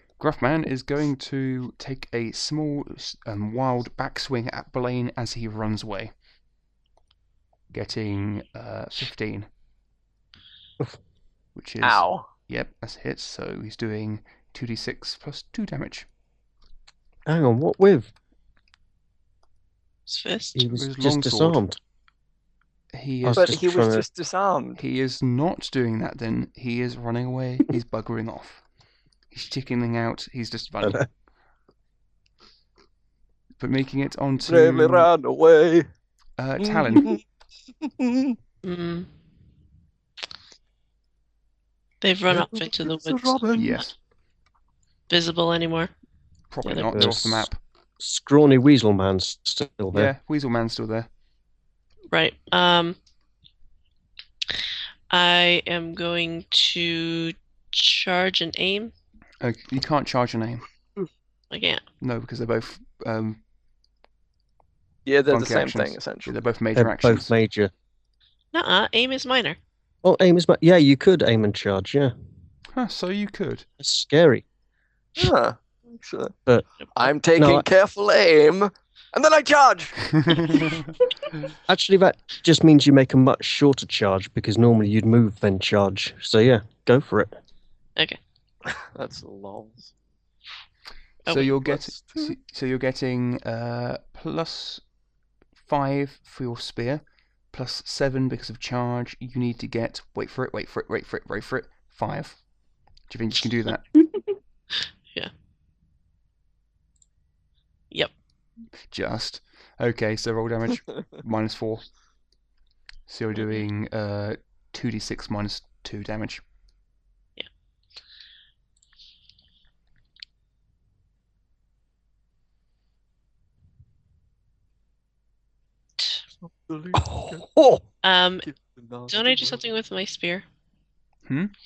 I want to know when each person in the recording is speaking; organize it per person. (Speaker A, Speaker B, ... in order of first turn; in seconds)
Speaker A: 0.2-6.1, 7.7-9.5, 11.6-16.1, 20.8-21.6, 22.9-23.6, 24.8-28.6, 29.3-31.1, 33.6-35.1, 36.4-37.2, 43.5-44.0, 46.5-47.6, 49.9-51.1, 59.4-60.6, 62.0-63.4, 65.3-67.3, 72.7-73.7, 80.3-80.7, 91.3-94.8, 95.7-102.4, 103.1-103.8, 108.9-111.8, 113.1-116.4, 131.3-131.5
Speaker B: 11.8-12.3, 23.3-24.8, 34.5-35.9, 36.6-37.2, 37.8-38.4, 42.3-43.8, 65.1-66.3, 75.2-76.3, 77.0-80.7, 88.7-89.9, 91.7-92.3, 126.4-127.5, 128.5-129.6
Speaker C: 17.3-18.1, 20.6-21.8, 23.2-24.1, 30.8-31.1, 46.9-47.5, 48.0-50.1, 66.8-67.7, 70.0-72.1, 73.8-74.4, 77.4-77.7, 81.7-87.4, 126.9-127.8
Speaker D: 20.1-20.6, 38.6-39.1, 42.0-43.4, 45.1-45.9, 46.6-46.9, 52.1-53.0, 55.1-58.9, 61.5-61.8, 68.5-69.6, 91.2-91.5, 113.4-113.7, 126.0-126.2, 128.0-128.5, 129.1-130.4